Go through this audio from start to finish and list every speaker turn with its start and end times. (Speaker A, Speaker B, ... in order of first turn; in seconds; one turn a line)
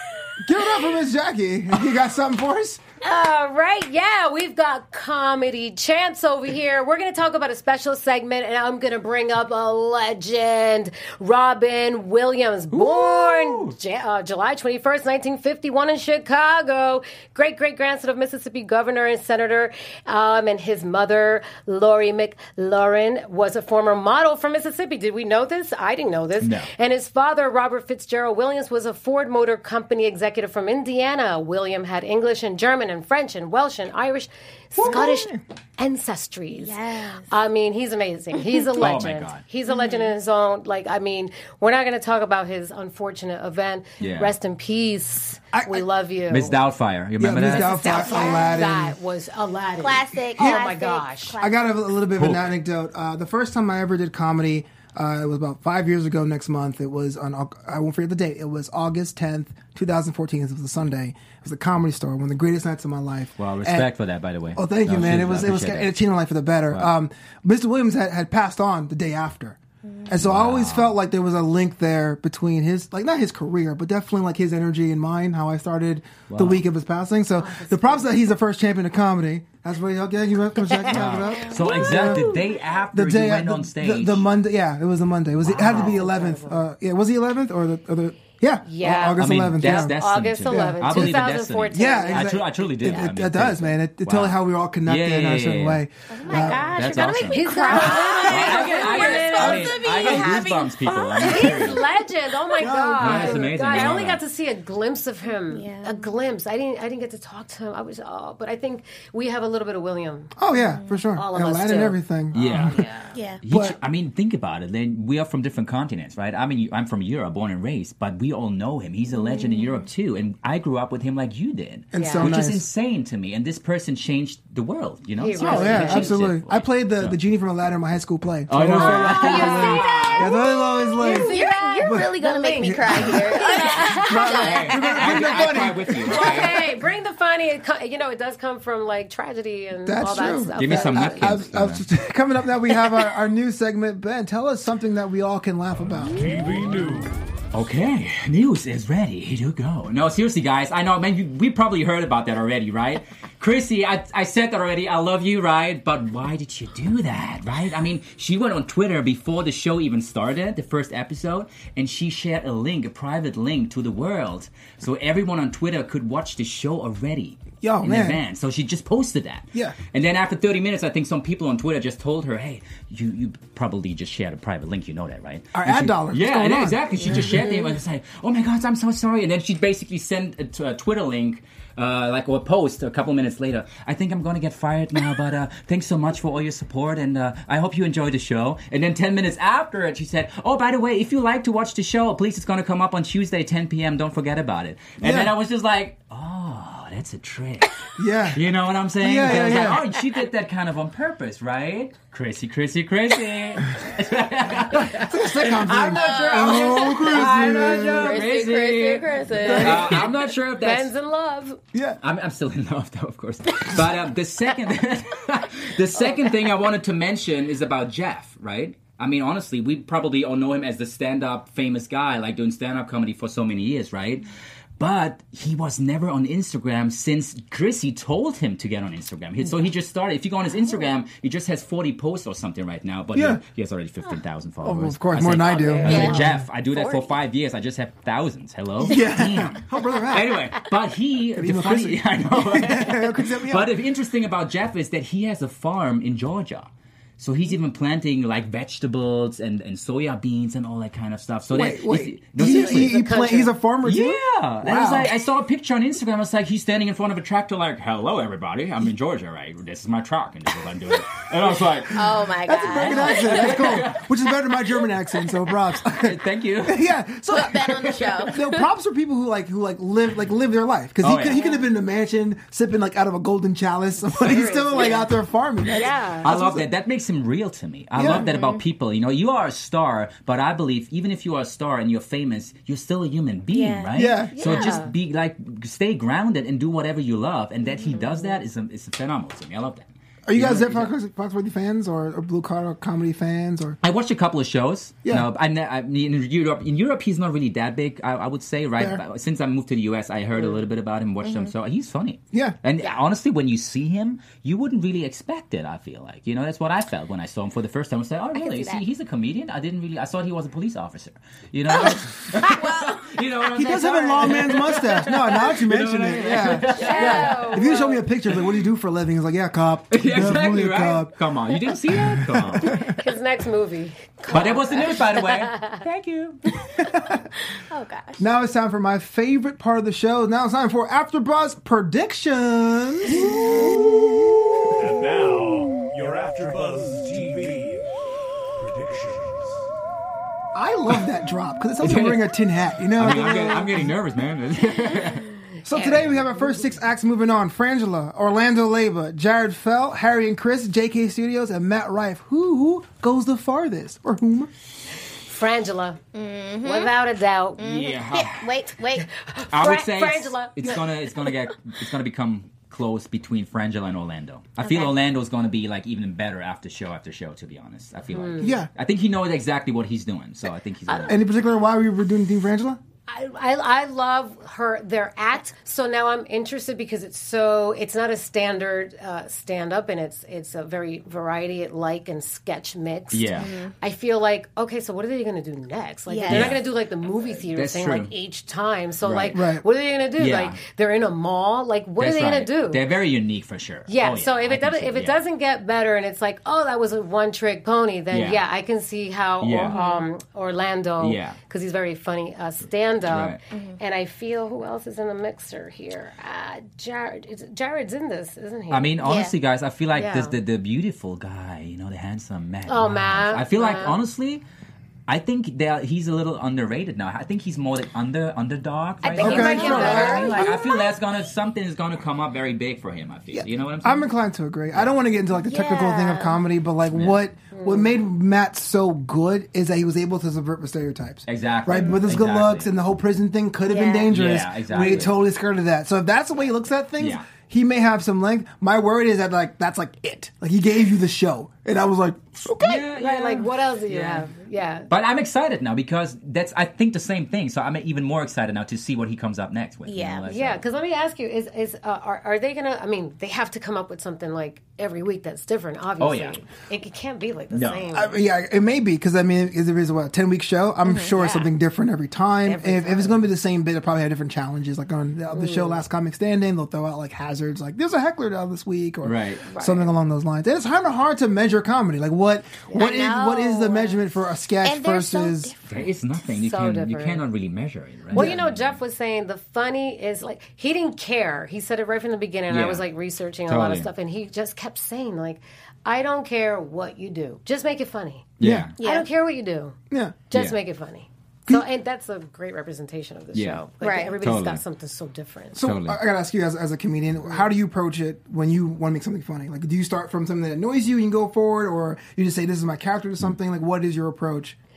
Speaker A: 0.4-2.8
Speaker B: 3.0-46.6
Speaker C: 12.7-13.8
Speaker C: 26.4-26.7
Speaker A: 34.8-35.4
Speaker D: 36.5-37.3
Speaker C: 38.8-39.4
Speaker D: 39.7-40.1
Speaker C: 44.0-44.3
Speaker A: 45.5-45.9
Speaker C: 46.3-48.1
Speaker A: 47.2-49.0
Speaker B: 47.5-51.4
Speaker D: 47.8-48.6
Speaker D: 49.8-51.6
Speaker A: 50.4-50.7
Speaker A: 51.4-63.9
Speaker C: 52.1-52.5
Speaker C: 63.4-65.9
Speaker A: 64.5-82.3
Speaker C: 70.2-71.0
Speaker C: 76.3-76.6
Speaker B: 77.4-78.1
Speaker C: 80.9-84.2
Speaker D: 81.4-81.8
Speaker B: 81.8-82.3
Speaker A: 82.9-89.9
Speaker C: 85.4-86.0
Speaker B: 85.5-86.6
Speaker B: 88.7-89.2
Speaker C: 89.2-101.8
Speaker B: 89.8-92.4
Speaker A: 90.5-96.7
Speaker D: 96.1-101.8
Speaker B: 96.4-100.3
Speaker B: 101.2-110.3
Speaker A: 102.6-103.5
Speaker C: 103.0-104.2
Speaker D: 105.5-106.1
Speaker A: 110.4-112.8
Speaker D: 110.8-111.0
Speaker B: 111.2-112.0
Speaker C: 112.3-112.8
Speaker B: 112.6-113.1
Speaker D: 113.1-113.4
Speaker C: 113.4-127.2
Speaker A: 113.5-113.8
Speaker D: 119.1-119.8
Speaker A: 121.9-122.6
Speaker B: 121.9-122.3
Speaker B: 125.2-126.3
Speaker A: 125.4-133.5
Speaker C: 128.5-130.1
Speaker B: 128.7-141.4
Speaker D: 129.3-134.7
Speaker A: 134.0-136.4
Speaker C: 134.3-136.7
Speaker A: 139.8-146.7
Speaker C: 140.6-141.8
Speaker E: 146.1-147.2
Speaker C: 147.5-210.9
Speaker A: 167.6-168.2
Speaker A: 175.5-177.4
Speaker D: 177.0-177.7
Speaker A: 195.0-195.3
Speaker A: 198.0-198.4
Speaker A: 199.0-199.8
Speaker A: 204.9-208.2
Speaker D: 205.9-210.1
Speaker B: 206.0-206.9
Speaker A: 209.4-210.0
Speaker B: 210.6-211.6
Speaker A: 211.7-212.0
Speaker C: 212.0-224.3
Speaker C: 224.8-253.0
Speaker A: 233.1-233.4
Speaker A: 234.6-236.4
Speaker B: 235.5-236.2
Speaker D: 235.8-237.1
Speaker A: 238.8-240.4
Speaker A: 241.3-243.7
Speaker A: 251.5-255.1
Speaker B: 252.4-253.5
Speaker C: 253.8-262.1
Speaker D: 261.9-263.8
Speaker A: 262.0-276.6
Speaker C: 262.7-264.1
Speaker C: 265.9-266.9
Speaker D: 267.3-268.6
Speaker C: 267.6-268.3
Speaker C: 271.0-271.4
Speaker D: 271.3-271.6
Speaker B: 274.1-275.0
Speaker B: 275.7-276.3
Speaker C: 276.2-290.9
Speaker A: 277.9-278.3
Speaker D: 278.0-278.6
Speaker D: 283.5-284.7
Speaker A: 283.9-284.4
Speaker B: 284.3-284.9
Speaker D: 287.6-288.2
Speaker A: 290.3-293.8
Speaker C: 293.8-317.7
Speaker D: 301.2-301.5
Speaker D: 308.3-308.8
Speaker D: 311.7-313.1
Speaker A: 313.5-321.1
Speaker D: 313.6-314.5
Speaker B: 316.7-318.0
Speaker D: 316.8-317.2
Speaker C: 319.9-322.9
Speaker A: 321.9-322.8
Speaker B: 322.8-325.8
Speaker C: 324.3-326.4
Speaker A: 326.8-327.2
Speaker D: 327.7-328.2
Speaker A: 328.2-333.6
Speaker E: 334.8-337.9
Speaker E: 338.6-339.6
Speaker A: 340.5-343.9
Speaker C: 341.8-342.3
Speaker C: 342.9-345.3
Speaker A: 345.6-354.5
Speaker B: 345.7-346.1
Speaker B: 355.3-356.0
Speaker D: 356.1-356.9
Speaker B: 356.6-357.6
Speaker D: 357.6-359.1
Speaker C: 357.6-358.5
Speaker B: 359.1-360.7
Speaker C: 359.5-371.2
Speaker D: 364.6-364.9
Speaker B: 368.1-368.6
Speaker A: 368.4-368.7
Speaker A: 371.1-372.8
Speaker B: 373.1-392.8
Speaker C: 383.1-383.5
Speaker D: 383.4-383.7
Speaker D: 386.1-386.6
Speaker C: 386.3-386.6
Speaker C: 387.5-388.1
Speaker C: 389.0-389.4
Speaker A: 389.3-389.6
Speaker C: 390.2-390.6
Speaker C: 392.0-395.2
Speaker B: 393.9-408.9
Speaker C: 398.1-398.4
Speaker C: 399.4-399.8
Speaker D: 399.7-400.0
Speaker C: 401.0-401.4
Speaker C: 403.1-403.4
Speaker D: 403.5-403.8
Speaker C: 408.7-414.4
Speaker D: 409.0-409.3
Speaker B: 409.9-410.4
Speaker B: 412.7-414.0
Speaker C: 415.1-424.1
Speaker B: 419.0-420.6
Speaker A: 419.2-420.4
Speaker D: 419.2-420.9
Speaker A: 423.3-442.8
Speaker D: 425.3-426.4
Speaker C: 426.9-427.2
Speaker B: 427.5-427.9
Speaker C: 431.3-432.8
Speaker D: 431.7-432.0
Speaker D: 433.6-434.1
Speaker C: 434.1-435.1
Speaker D: 434.8-435.1
Speaker C: 437.0-437.3
Speaker C: 442.6-444.3
Speaker B: 442.8-444.9
Speaker C: 444.9-450.6
Speaker D: 449.9-450.2
Speaker B: 450.3-458.1
Speaker C: 456.0-456.4
Speaker C: 457.5-457.9
Speaker A: 457.9-475.5
Speaker D: 460.8-461.1
Speaker B: 461.1-461.5
Speaker B: 462.4-463.2
Speaker D: 465.3-465.7
Speaker C: 469.0-469.4
Speaker D: 469.5-469.9
Speaker D: 472.7-474.0
Speaker D: 474.6-475.9
Speaker C: 475.7-478.8
Speaker B: 476.4-477.2
Speaker B: 478.1-489.8
Speaker A: 478.1-478.4
Speaker C: 482.5-482.8
Speaker C: 483.5-483.9
Speaker C: 488.4-488.8
Speaker A: 488.4-488.7
Speaker D: 488.8-489.1
Speaker A: 489.9-490.2
Speaker B: 490.3-495.6
Speaker C: 493.3-494.6
Speaker D: 493.8-494.2
Speaker A: 495.6-504.6
Speaker C: 495.6-496.0